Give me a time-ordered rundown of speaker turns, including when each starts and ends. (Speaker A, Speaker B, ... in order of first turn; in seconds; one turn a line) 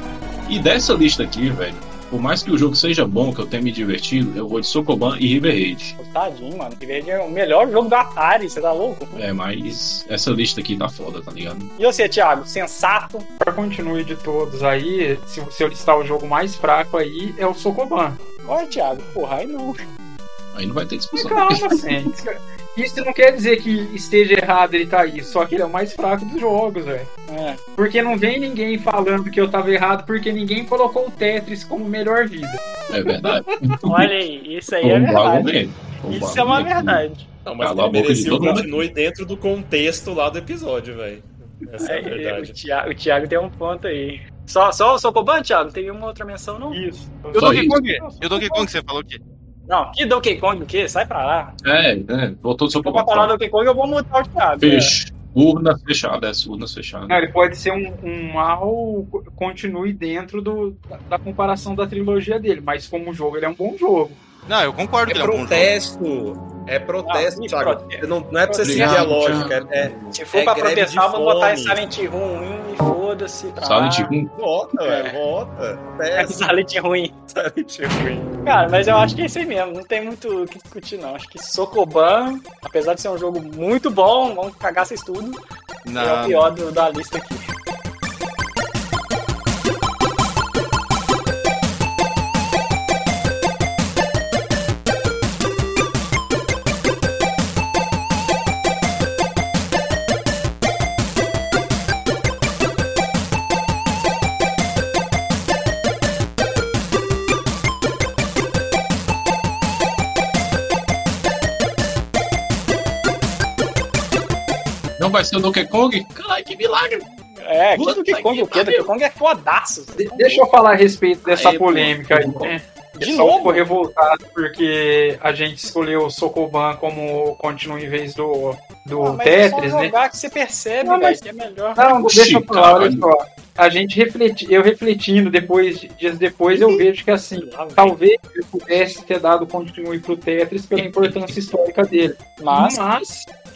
Speaker A: 0.5-6.0
Speaker B: 6.0-9.2
Speaker A: 9.1-11.7
Speaker B: 11.8-13.3
Speaker C: 13.4-18.2
Speaker B: 18.4-19.8
Speaker A: 20.5-22.0
Speaker C: 21.1-27.1
Speaker B: 27.3-27.6
Speaker C: 27.8-32.6
Speaker A: 32.9-34.1
Speaker B: 33.9-37.3
Speaker A: 34.8-37.0
Speaker D: 37.5-42.6
Speaker A: 37.6-38.8
Speaker B: 41.8-46.8
Speaker C: 46.7-48.6
Speaker E: 47.3-49.2
Speaker A: 47.4-47.8
Speaker B: 49.7-51.6
Speaker A: 51.6-53.3
Speaker B: 52.8-55.0
Speaker A: 54.6-57.2
Speaker C: 57.1-64.2
Speaker E: 64.5-65.7
Speaker D: 65.1-71.8
Speaker B: 67.0-69.5
Speaker A: 68.6-70.2
Speaker B: 70.1-74.1
Speaker A: 73.6-74.3
Speaker D: 74.3-76.5
Speaker B: 74.9-75.2
Speaker B: 76.2-77.2
Speaker D: 77.3-78.3
Speaker B: 78.3-85.4
Speaker E: 85.8-86.5
Speaker B: 86.0-87.5
Speaker A: 115.0-117.1
Speaker B: 117.4-120.5
Speaker A: 117.8-118.9
Speaker C: 120.0-129.9
Speaker A: 121.3-122.5
Speaker B: 123.0-123.6
Speaker B: 129.0-131.8
Speaker C: 130.8-131.2
Speaker C: 131.8-143.3
Speaker A: 131.9-133.1
Speaker B: 136.5-137.9
Speaker A: 140.8-141.3
Speaker B: 142.4-142.8